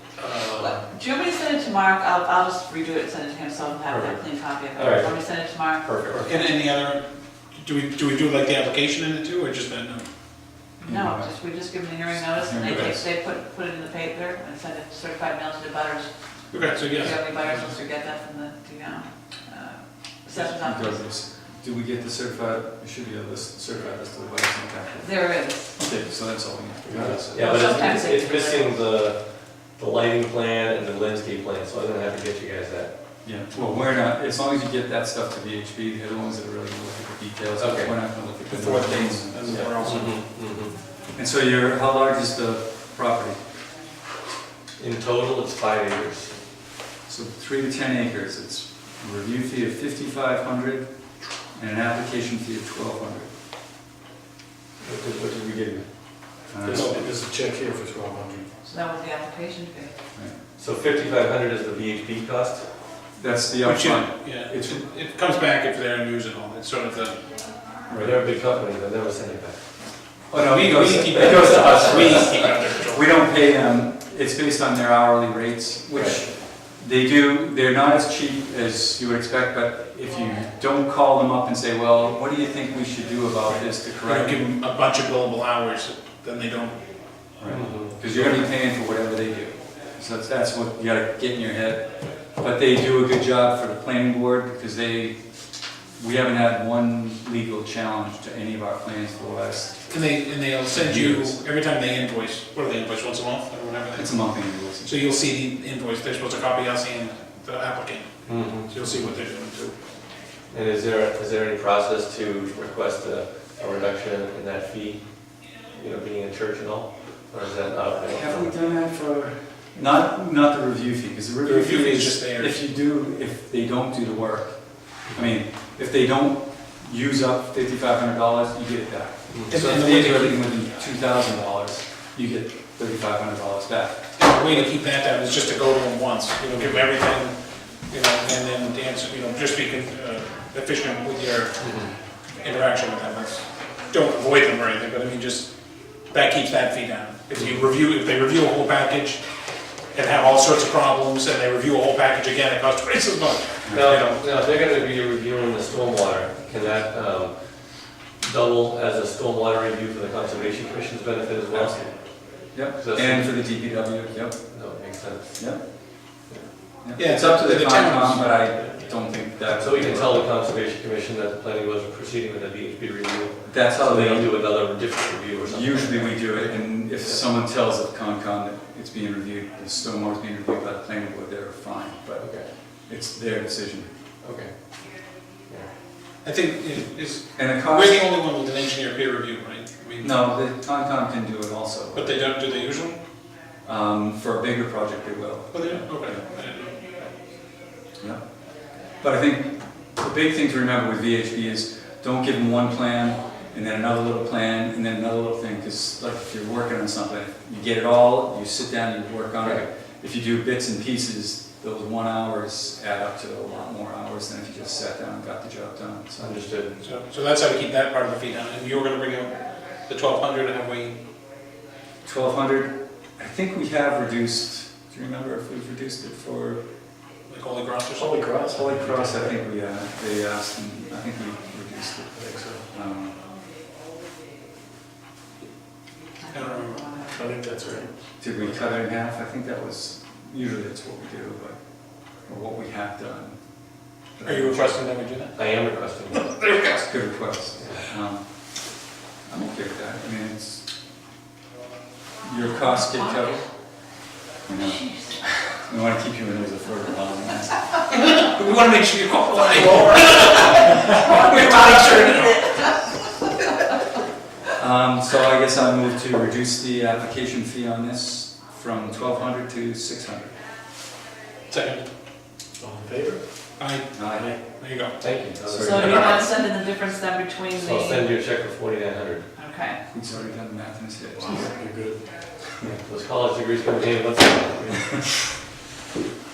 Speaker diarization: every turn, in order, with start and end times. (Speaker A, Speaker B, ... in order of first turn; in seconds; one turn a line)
Speaker A: 0.2-0.9
Speaker B: 0.6-6.4
Speaker C: 3.9-6.2
Speaker D: 6.1-7.0
Speaker D: 7.5-10.0
Speaker B: 10.8-16.1
Speaker E: 10.8-11.3
Speaker E: 11.8-13.0
Speaker D: 12.7-12.9
Speaker D: 16.5-17.8
Speaker B: 16.9-21.1
Speaker E: 20.5-27.5
Speaker B: 24.9-25.8
Speaker A: 26.8-27.2
Speaker C: 27.0-32.9
Speaker B: 27.4-28.8
Speaker E: 33.2-40.0
Speaker C: 37.6-38.0
Speaker D: 38.3-40.2
Speaker C: 39.8-40.7
Speaker E: 41.1-43.4
Speaker C: 44.8-46.3
Speaker E: 47.1-50.9
Speaker E: 51.5-53.3
Speaker C: 54.8-55.9
Speaker E: 56.5-57.0
Speaker A: 56.6-58.5
Speaker D: 56.7-57.0
Speaker B: 58.6-59.9
Speaker C: 60.5-62.7
Speaker E: 63.2-64.8
Speaker D: 63.6-67.2
Speaker E: 67.9-68.2
Speaker C: 68.0-69.6
Speaker E: 70.3-84.4
Speaker D: 70.3-73.0
Speaker C: 71.1-72.2
Speaker C: 75.9-76.2
Speaker D: 84.0-86.8
Speaker E: 87.4-95.2
Speaker C: 87.4-88.0
Speaker D: 88.1-88.5
Speaker E: 96.0-99.9
Speaker D: 99.9-104.3
Speaker E: 100.7-101.4
Speaker E: 103.9-104.9
Speaker D: 104.8-109.7
Speaker C: 108.2-108.7
Speaker A: 108.8-109.2
Speaker C: 110.5-118.5
Speaker E: 118.0-134.1
Speaker D: 121.4-122.6
Speaker C: 125.1-125.3
Speaker C: 129.3-129.6
Speaker D: 129.5-130.4
Speaker D: 134.2-141.6
Speaker C: 141.6-141.9
Speaker D: 142.4-145.5
Speaker D: 146.1-149.2
Speaker C: 147.3-147.6
Speaker D: 149.9-154.2
Speaker E: 153.6-154.0
Speaker C: 153.7-163.6
Speaker D: 161.5-161.8
Speaker E: 162.5-165.6
Speaker C: 164.5-166.5
Speaker E: 166.8-170.2
Speaker D: 167.0-168.7
Speaker C: 169.5-176.3
Speaker E: 173.4-174.6
Speaker E: 175.5-183.9
Speaker D: 176.3-176.6
Speaker C: 182.2-182.5
Speaker C: 184.2-185.7
Speaker D: 186.2-190.2
Speaker E: 187.3-188.0
Speaker E: 190.0-192.2
Speaker D: 191.9-193.0
Speaker E: 193.6-196.2
Speaker D: 195.5-196.8
Speaker E: 198.9-216.6
Speaker C: 209.4-209.7
Speaker C: 216.2-216.8
Speaker D: 216.8-221.0
Speaker E: 222.0-226.6
Speaker D: 227.3-228.2
Speaker A: 227.9-229.4
Speaker E: 228.5-233.2
Speaker A: 232.1-232.6
Speaker B: 236.2-237.3
Speaker D: 236.3-237.0
Speaker A: 237.1-237.9
Speaker E: 238.2-241.6
Speaker E: 242.2-243.4
Speaker E: 244.1-244.8
Speaker D: 244.2-245.4
Speaker C: 245.3-246.3
Speaker D: 246.1-246.9
Speaker E: 246.8-248.2
Speaker C: 247.6-247.8
Speaker E: 249.2-250.6
Speaker E: 252.2-253.4
Speaker B: 252.4-253.4
Speaker E: 254.4-257.7
Speaker B: 254.6-255.2
Speaker D: 257.9-262.7
Speaker B: 260.4-263.0
Speaker E: 264.6-270.3
Speaker D: 271.5-271.9
Speaker A: 272.6-273.2
Speaker D: 273.6-275.0
Speaker E: 273.9-274.3
Speaker A: 274.1-274.4
Speaker C: 275.0-276.3
Speaker E: 275.2-276.0
Speaker B: 275.6-278.1
Speaker C: 277.5-279.3
Speaker B: 279.3-279.8
Speaker E: 279.9-281.5
Speaker A: 281.1-282.3
Speaker C: 282.6-285.1